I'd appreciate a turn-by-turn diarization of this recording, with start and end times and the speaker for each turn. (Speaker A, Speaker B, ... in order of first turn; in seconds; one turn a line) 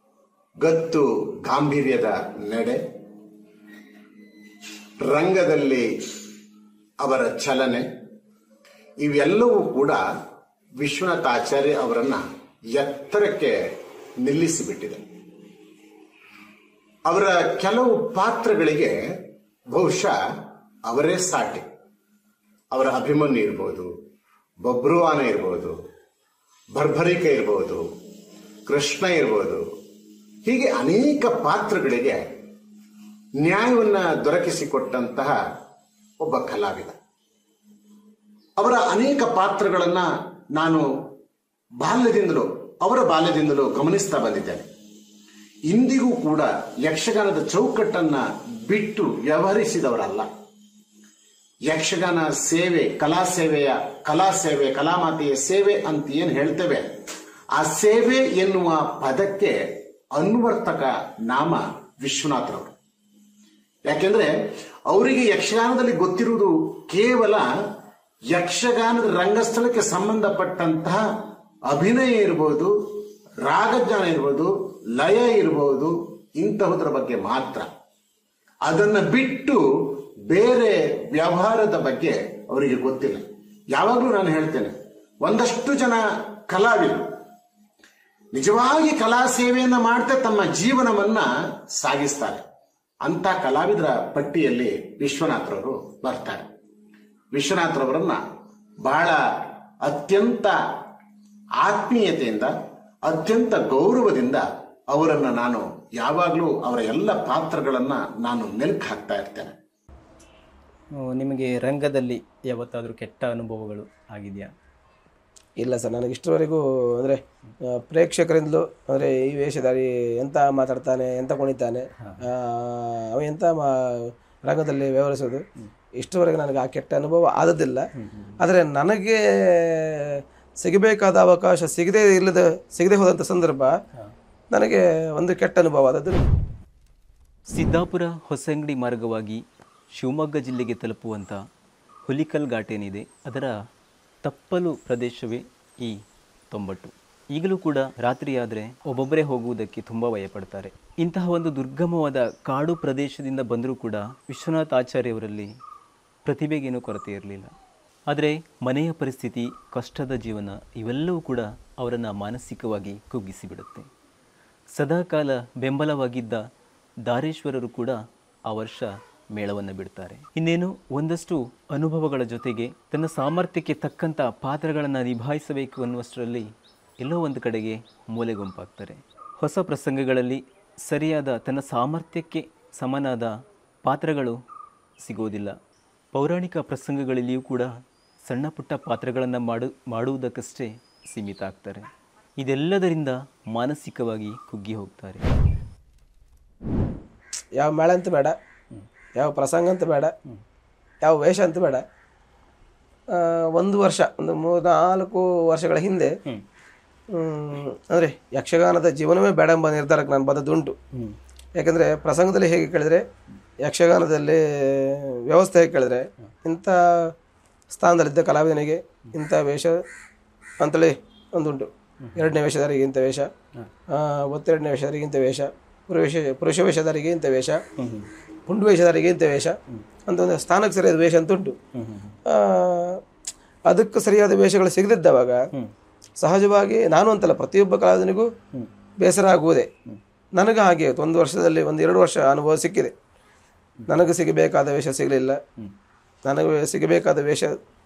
Speaker A: 0.6-2.8
Speaker A: 5.0-5.8
Speaker A: 7.0-7.8
Speaker A: 9.0-10.0
Speaker A: 10.8-13.6
Speaker A: 14.2-15.0
Speaker A: 17.1-19.0
Speaker A: 19.7-20.2
Speaker A: 20.9-21.6
Speaker A: 22.7-23.9
Speaker A: 24.6-25.7
Speaker A: 26.7-27.9
Speaker A: 28.7-29.6
Speaker A: 30.4-32.2
Speaker A: 33.4-35.4
Speaker A: 36.2-36.9
Speaker A: 38.6-40.8
Speaker A: 41.8-44.6
Speaker A: 45.7-50.3
Speaker A: 51.7-56.9
Speaker A: 57.6-62.7
Speaker A: 63.9-64.3
Speaker A: 64.9-67.5
Speaker A: 68.3-71.0
Speaker A: 71.7-72.7
Speaker A: 73.4-77.7
Speaker A: 78.7-83.2
Speaker A: 83.7-87.1
Speaker A: 88.3-92.4
Speaker A: 93.0-96.4
Speaker A: 97.3-98.2
Speaker A: 98.8-99.2
Speaker A: 99.8-100.5
Speaker A: 101.6-102.5
Speaker A: 103.1-109.5
Speaker B: 111.0-114.5
Speaker C: 115.6-125.4
Speaker C: 126.0-127.9
Speaker B: 128.0-128.3
Speaker C: 128.4-133.7
Speaker C: 134.5-136.2
Speaker B: 137.5-139.4
Speaker B: 139.9-141.4
Speaker B: 142.1-143.5
Speaker B: 144.2-146.0
Speaker B: 146.5-155.5
Speaker B: 156.2-157.5
Speaker B: 158.1-163.9
Speaker B: 164.7-166.4
Speaker B: 167.1-184.4
Speaker B: 185.0-185.5
Speaker B: 186.1-187.7
Speaker B: 188.2-191.9
Speaker B: 192.4-195.3
Speaker C: 197.6-198.3
Speaker C: 199.2-200.1
Speaker C: 201.0-201.8
Speaker C: 203.1-206.1
Speaker C: 207.1-210.8
Speaker C: 211.6-213.1
Speaker C: 213.6-217.1
Speaker C: 217.7-219.8
Speaker C: 220.6-223.3
Speaker C: 223.9-227.6
Speaker B: 227.8-228.1
Speaker C: 228.5-231.6
Speaker B: 231.7-232.1
Speaker C: 232.3-233.0
Speaker C: 233.7-235.4
Speaker C: 236.2-238.3
Speaker C: 239.0-239.7
Speaker C: 240.3-242.9
Speaker C: 243.9-245.4
Speaker C: 246.2-247.6